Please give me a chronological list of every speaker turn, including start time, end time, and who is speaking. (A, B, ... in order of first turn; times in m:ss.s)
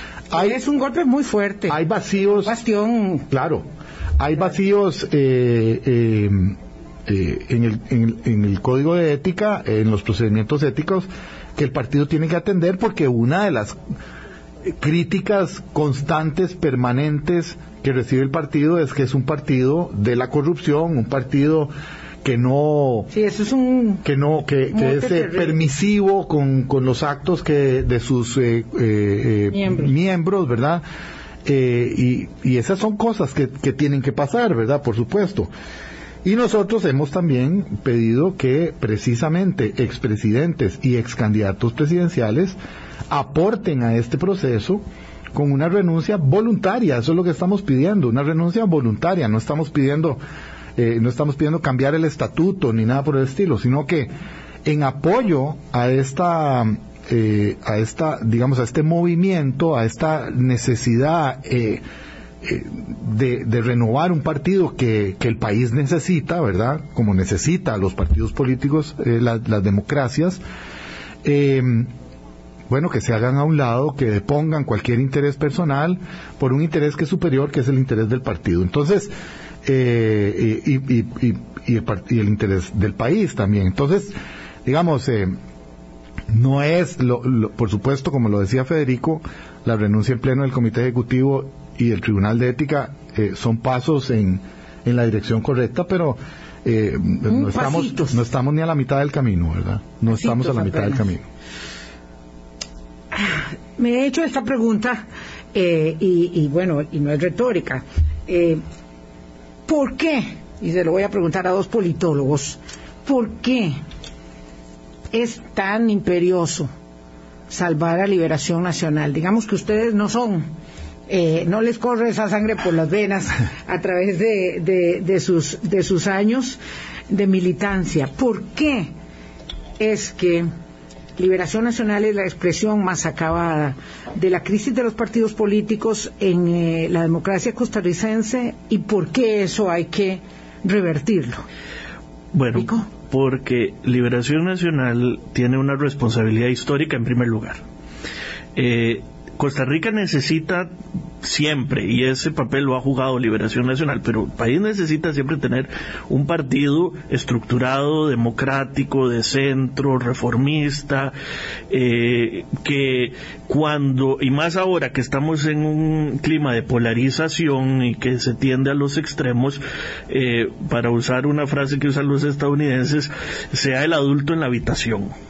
0:00.3-0:01.8 A
0:01.7-0:02.6 B
0:02.4-0:03.2 A
0:03.3-0:03.6 B
0:04.2-0:13.8 B
0:14.6-0:21.7 B
0:22.2-0:23.1 B
0:23.1-0:24.0 A
0:24.0-0:30.8 B
0:24.7-0:25.6 A
0:29.5-0:29.9 A
0:31.4-0:35.5 B
0:36.2-0:42.6 B
0:43.1-0:44.8 B
0:45.3-0:50.2 B
0:50.8-0:54.1 B
0:54.6-1:01.8 B
1:02.4-1:10.4 B
1:11.2-1:11.9 B
1:12.7-1:19.1 B
1:19.6-1:24.1 B
1:24.6-1:25.3 B
1:26.3-1:41.2 B
1:37.3-1:38.2 A
1:40.1-1:41.1 A
1:43.1-1:45.0 A
1:45.5-1:48.6 A
1:49.7-1:53.8 A
1:55.1-1:56.7 A
1:57.5-2:00.4 A
2:01.1-2:08.9 A
2:09.8-2:10.5 A
2:11.2-2:21.4 A
2:22.3-2:27.6 C
2:22.6-2:22.8 A
2:28.6-2:30.7 C
2:31.2-2:41.1 C
2:41.7-2:55.1 C